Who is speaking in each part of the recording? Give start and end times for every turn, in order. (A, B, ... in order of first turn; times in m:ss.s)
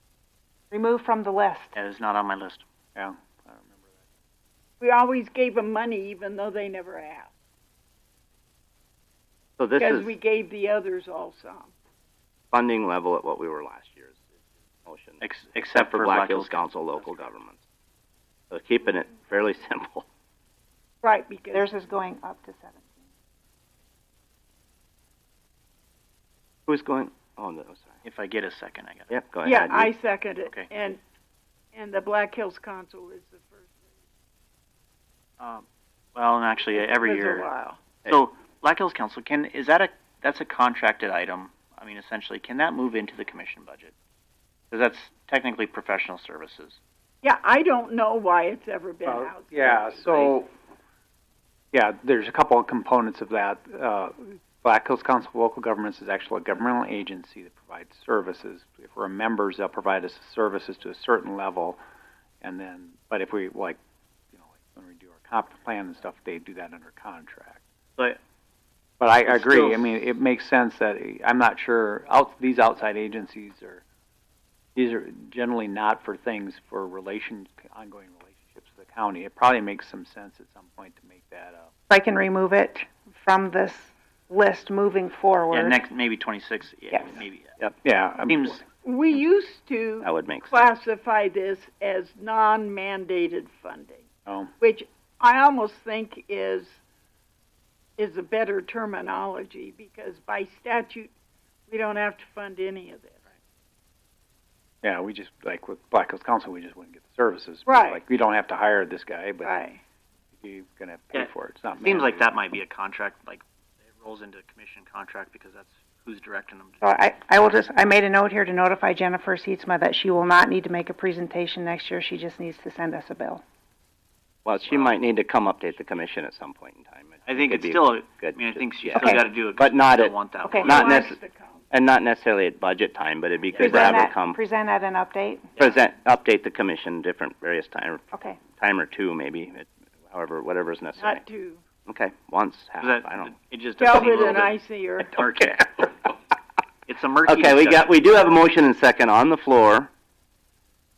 0:00.7-0:01.8 A
0:01.8-0:02.6 B
0:03.0-0:03.9 C
0:04.8-0:07.3 D
0:09.6-0:10.1 E
0:09.8-0:11.7 D
0:12.5-0:14.2 E
0:14.8-0:15.2 E
0:15.2-0:17.2 B
0:15.8-0:17.6 E
0:18.5-0:20.1 E
0:21.0-0:21.7 D
0:21.5-0:22.9 A
0:26.7-0:27.9 E
0:28.0-0:29.1 B
0:29.1-0:29.9 E
0:29.4-0:31.0 D
0:31.7-0:33.7 D
0:35.4-0:37.5 B
0:36.8-0:37.8 D
0:38.1-0:43.9 B
0:44.7-0:46.8 B
0:47.2-0:50.2 D
0:49.0-0:50.5 C
0:51.7-1:01.8 C
1:02.4-1:03.8 C
1:04.3-1:07.6 C
1:09.0-1:13.8 C
1:09.3-1:10.0 B
1:14.8-1:21.7 C
1:21.9-1:25.8 A
1:25.5-1:27.6 B
1:27.8-1:28.6 C
1:28.3-1:28.6 B
1:28.8-1:34.1 D
1:30.0-1:30.6 E
1:34.3-1:34.5 C
1:34.6-1:36.8 D
1:38.0-1:41.1 D
1:41.7-1:43.2 D
1:44.8-1:49.5 C
1:47.7-1:48.0 D
1:49.4-1:49.8 D
1:50.4-1:52.2 C
1:51.1-1:56.8 B
1:56.8-2:03.4 A
2:04.4-2:11.2 E
2:07.3-2:10.7 B
2:08.9-2:09.2 A
2:10.4-2:10.8 A
2:10.6-2:11.6 D
2:11.7-2:14.4 E
2:13.6-2:15.5 A
2:15.6-2:21.2 E
2:18.1-2:18.4 A
2:21.0-2:21.6 D
2:21.9-2:23.4 E
2:22.8-2:24.6 B
2:23.8-2:25.2 D
2:25.1-2:26.1 B
2:26.9-2:28.0 B
2:27.3-2:29.9 E